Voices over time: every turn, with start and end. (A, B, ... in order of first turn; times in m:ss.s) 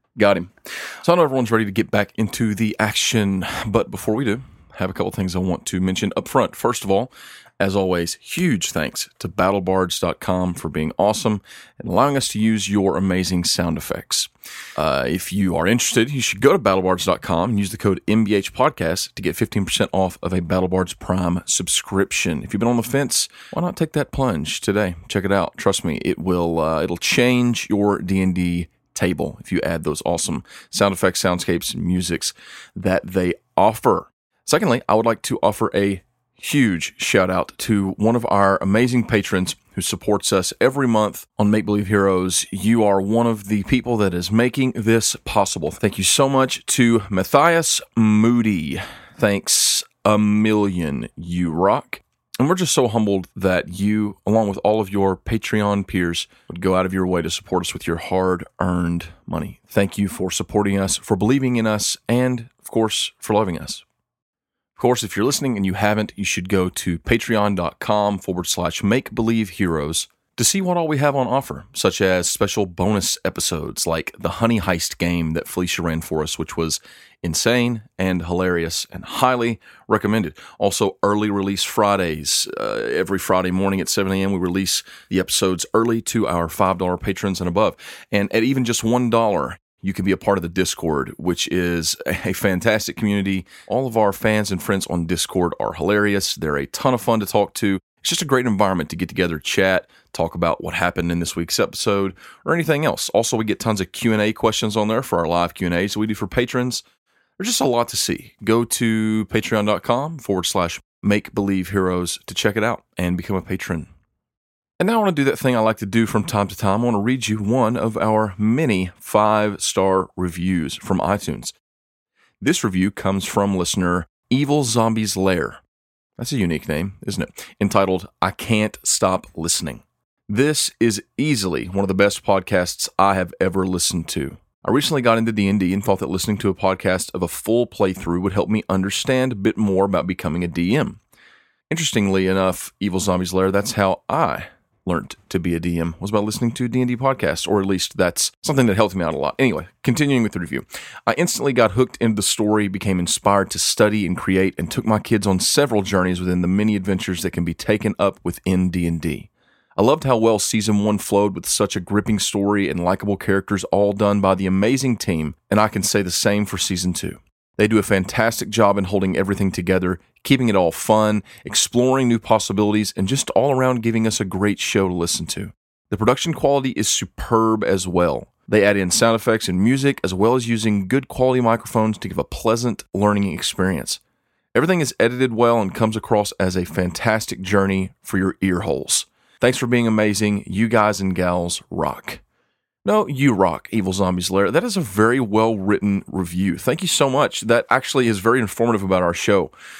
0:00.2-1:03.8 A
1:04.8-1:46.8 A
1:47.4-1:53.9 A
1:54.8-2:01.5 A
2:02.4-2:05.6 A
2:06.2-2:21.0 A
2:21.7-3:04.0 A
3:04.5-3:12.2 A
3:12.8-3:19.5 A